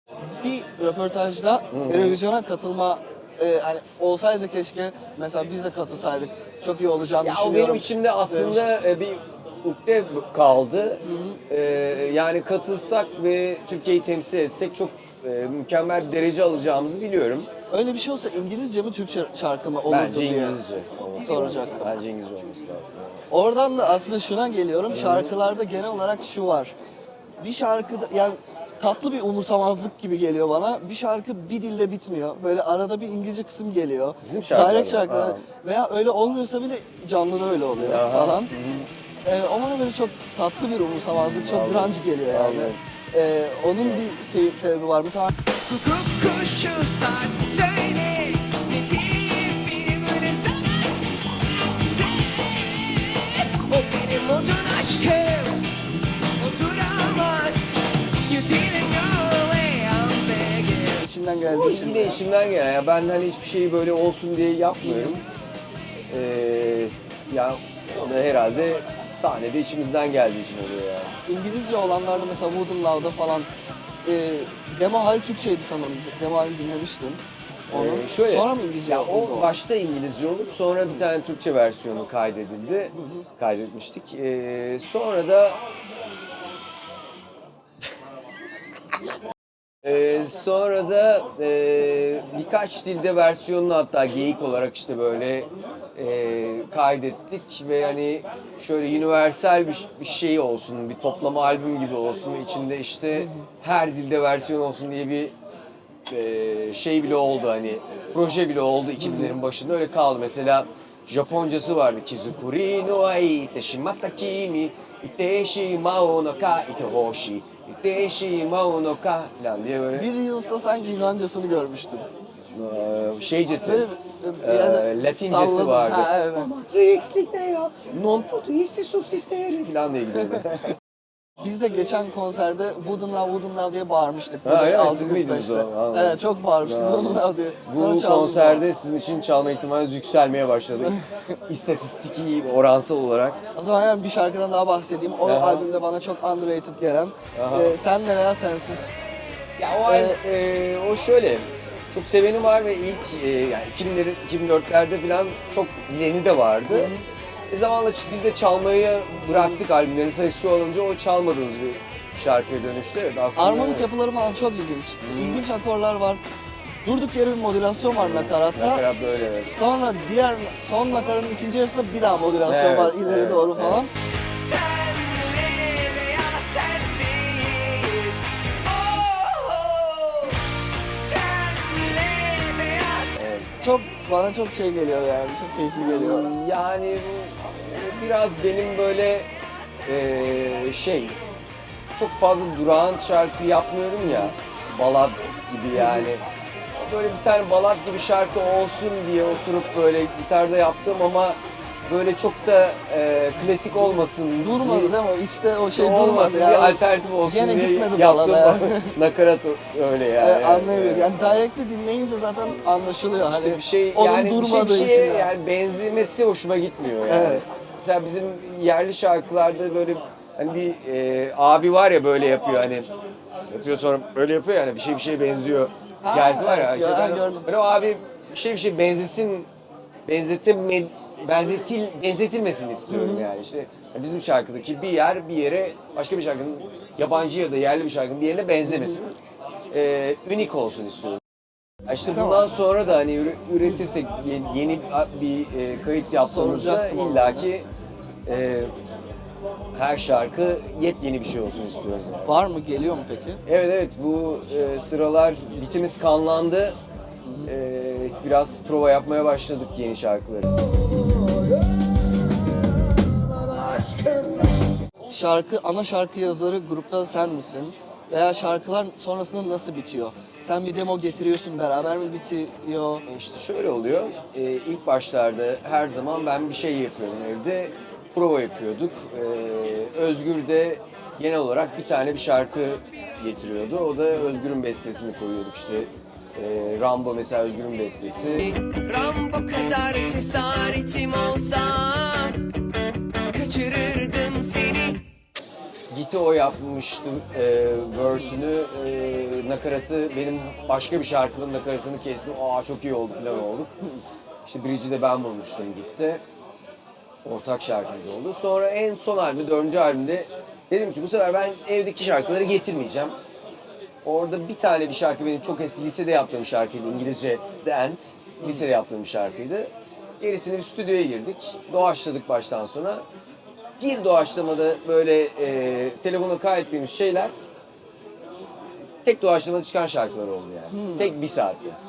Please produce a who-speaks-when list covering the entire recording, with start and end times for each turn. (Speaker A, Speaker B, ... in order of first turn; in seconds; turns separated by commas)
Speaker A: 0.4-8.7, Speaker B: 1.7-2.2, Speaker B: 7.2-17.5, Speaker A: 11.0-11.4, Speaker A: 17.7-20.6, Speaker B: 19.9-23.2, Speaker A: 21.1-22.0, Speaker A: 23.3-26.7, Speaker B: 24.9-25.3, Speaker A: 27.4-38.5, Speaker B: 34.2-35.4, Speaker B: 37.8-38.9, Speaker A: 39.2-45.4, Speaker B: 41.1-42.8, Speaker C: 45.5-55.7, Speaker C: 56.4-61.0, Speaker A: 60.9-62.2, Speaker B: 61.4-65.2, Speaker A: 64.8-65.2, Speaker B: 66.1-71.2, Speaker A: 71.2-73.5, Speaker A: 74.0-79.5, Speaker B: 77.7-85.6, Speaker A: 82.9-83.2, Speaker B: 89.8-105.3, Speaker A: 103.1-103.4, Speaker B: 106.1-120.1, Speaker A: 109.0-109.3, Speaker A: 119.9-122.1, Speaker B: 122.5-123.9, Speaker A: 123.6-126.5, Speaker B: 124.4-130.8, Speaker A: 131.4-138.6, Speaker B: 134.4-143.4, Speaker A: 143.5-148.9, Speaker B: 145.2-145.7, Speaker B: 147.3-147.8, Speaker B: 149.6-156.9, Speaker A: 149.8-150.2, Speaker A: 156.7-157.0, Speaker B: 157.5-163.9, Speaker A: 159.3-159.6, Speaker A: 163.3-166.2, Speaker B: 165.0-165.4, Speaker A: 166.8-168.8, Speaker B: 168.0-169.5, Speaker A: 169.4-173.9, Speaker B: 172.4-173.8, Speaker C: 174.3-183.2, Speaker B: 183.2-183.5, Speaker A: 183.6-186.3, Speaker B: 185.8-189.3, Speaker B: 189.8-191.2, Speaker B: 191.9-196.2, Speaker A: 194.0-194.3, Speaker A: 195.7-196.1, Speaker B: 196.8-204.9, Speaker A: 204.4-208.9, Speaker B: 205.7-211.5, Speaker A: 210.2-215.3, Speaker B: 212.4-212.7, Speaker B: 213.3-222.9, Speaker A: 217.0-217.4, Speaker B: 223.5-229.5, Speaker A: 226.0-227.4, Speaker B: 230.1-239.2, Speaker A: 232.9-233.3, Speaker A: 238.7-239.0, Speaker B: 239.7-241.2, Speaker B: 241.9-247.7, Speaker A: 242.1-242.4, Speaker A: 246.1-247.5, Speaker B: 248.2-248.7, Speaker B: 249.7-252.3, Speaker A: 252.2-253.4, Speaker B: 253.4-256.8, Speaker A: 257.2-257.5, Speaker B: 257.4-264.6, Speaker A: 265.1-273.0, Speaker B: 273.1-288.6, Speaker C: 288.4-292.5, Speaker C: 293.3-295.0, Speaker B: 295.9-303.8, Speaker A: 298.0-298.3, Speaker B: 304.4-306.2, Speaker B: 307.2-313.1, Speaker B: 314.0-323.0, Speaker A: 318.4-318.6, Speaker B: 323.8-327.3, Speaker B: 329.0-331.8, Speaker A: 330.7-331.1